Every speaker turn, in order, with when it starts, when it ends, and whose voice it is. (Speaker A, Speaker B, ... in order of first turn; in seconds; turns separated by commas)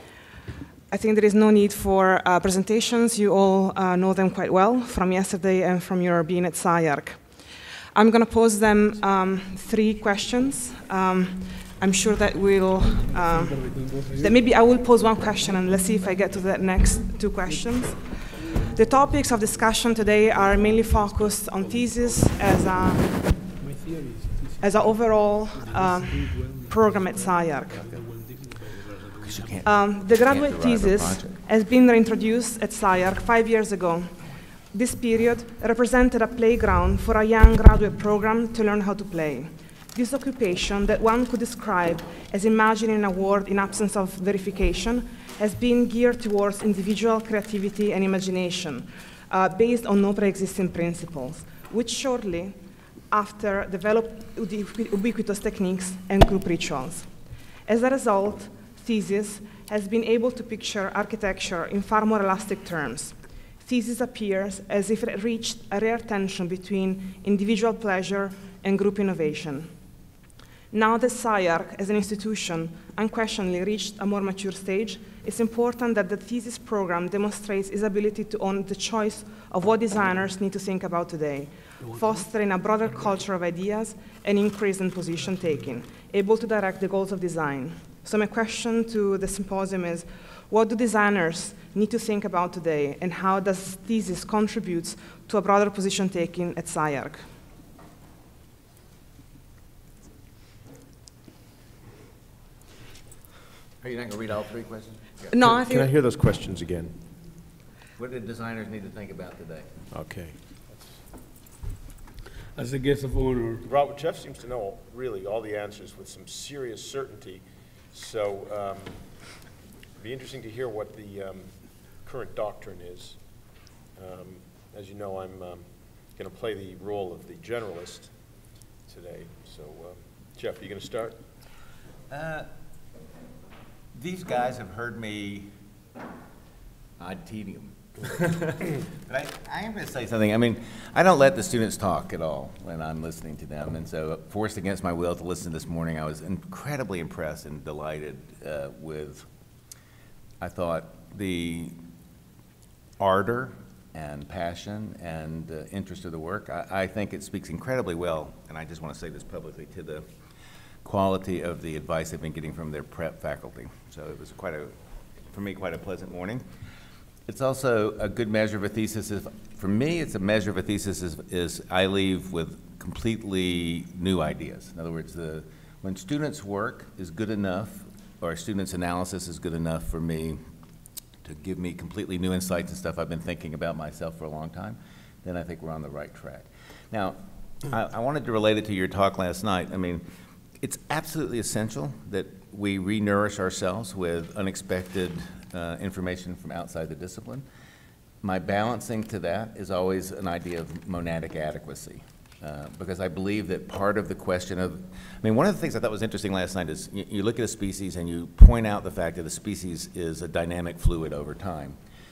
Speaker A: 0.9-7.3, Speaker A: 7.9-13.7, Speaker B: 13.1-14.4, Speaker A: 14.2-23.3, Speaker B: 20.5-22.4, Speaker B: 23.6-25.0, Speaker A: 24.6-27.8, Speaker B: 25.5-29.6, Speaker C: 29.2-31.3, Speaker A: 29.6-52.5, Speaker A: 53.1-57.1, Speaker A: 57.6-69.7, Speaker A: 70.7-97.2, Speaker B: 81.8-82.2, Speaker C: 103.8-105.2, Speaker A: 105.3-105.9, Speaker D: 105.4-106.9, Speaker C: 108.0-109.7, Speaker D: 109.9-110.3, Speaker B: 112.5-113.6, Speaker D: 113.7-119.0, Speaker D: 120.0-123.2, Speaker D: 124.0-128.1, Speaker D: 128.9-131.2, Speaker C: 132.1-132.5, Speaker C: 133.9-135.5, Speaker C: 137.0-149.3, Speaker C: 150.4-151.8, Speaker C: 153.0-160.1, Speaker C: 160.8-164.7, Speaker C: 165.3-166.4, Speaker C: 167.3-180.4, Speaker C: 181.2-190.0, Speaker C: 190.6-197.4, Speaker C: 198.2-211.8